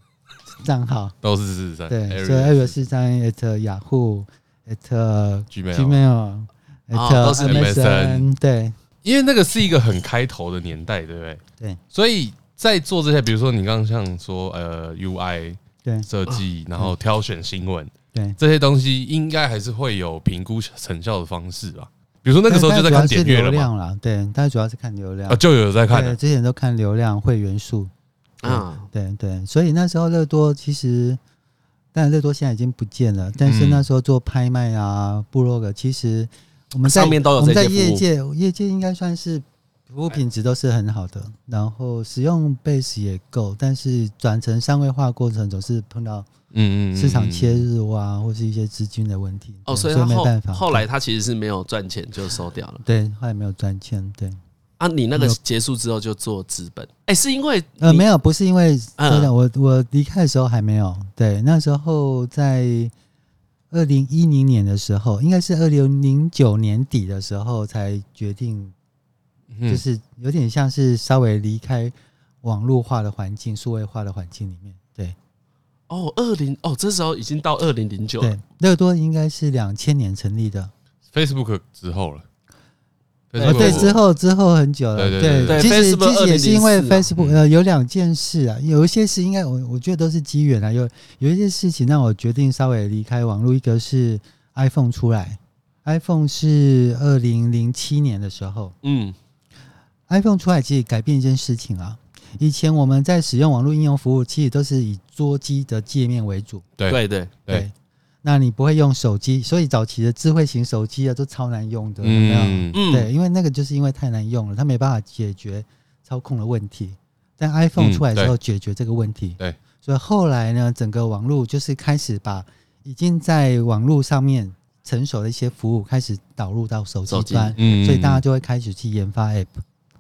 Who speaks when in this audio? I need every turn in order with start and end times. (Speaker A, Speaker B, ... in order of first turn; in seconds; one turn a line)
Speaker A: 0.6-1.1
Speaker B: 1.2-2.8
Speaker A: 1.9-8.8
Speaker B: 5.5-6.0
Speaker C: 6.9-7.7
Speaker B: 7.4-8.3
Speaker B: 9.0-11.4
Speaker B: 11.9-23.7
Speaker A: 22.5-27.9
Speaker B: 25.3-26.2
Speaker C: 28.4-28.9
Speaker A: 28.4-31.2
Speaker A: 31.9-46.3
Speaker B: 33.4-33.9
Speaker C: 36.9-38.0
Speaker B: 46.5-47.7
Speaker A: 47.0-50.9
Speaker C: 49.7-52.8
Speaker A: 52.8-54.4
Speaker C: 54.8-58.1
Speaker A: 57.8-62.9
Speaker C: 59.0-59.3
Speaker A: 63.7-68.7
Speaker B: 69.5-69.8
Speaker A: 69.7-75.2
Speaker C: 75.9-78.3
Speaker A: 78.2-80.7
Speaker B: 81.1-82.2
Speaker B: 83.3-84.0
Speaker C: 83.4-83.9
Speaker A: 83.4-98.8
Speaker B: 85.0-85.8
Speaker C: 85.5-87.1
Speaker C: 98.8-99.2
Speaker A: 100.1-106.7
Speaker B: 106.8-107.7
Speaker C: 106.9-107.3
Speaker A: 107.5-107.7
Speaker A: 108.2-129.6
Speaker B: 112.0-112.8
Speaker C: 112.7-113.1
Speaker B: 117.8-118.3
Speaker C: 127.1-127.6
Speaker B: 127.6-128.2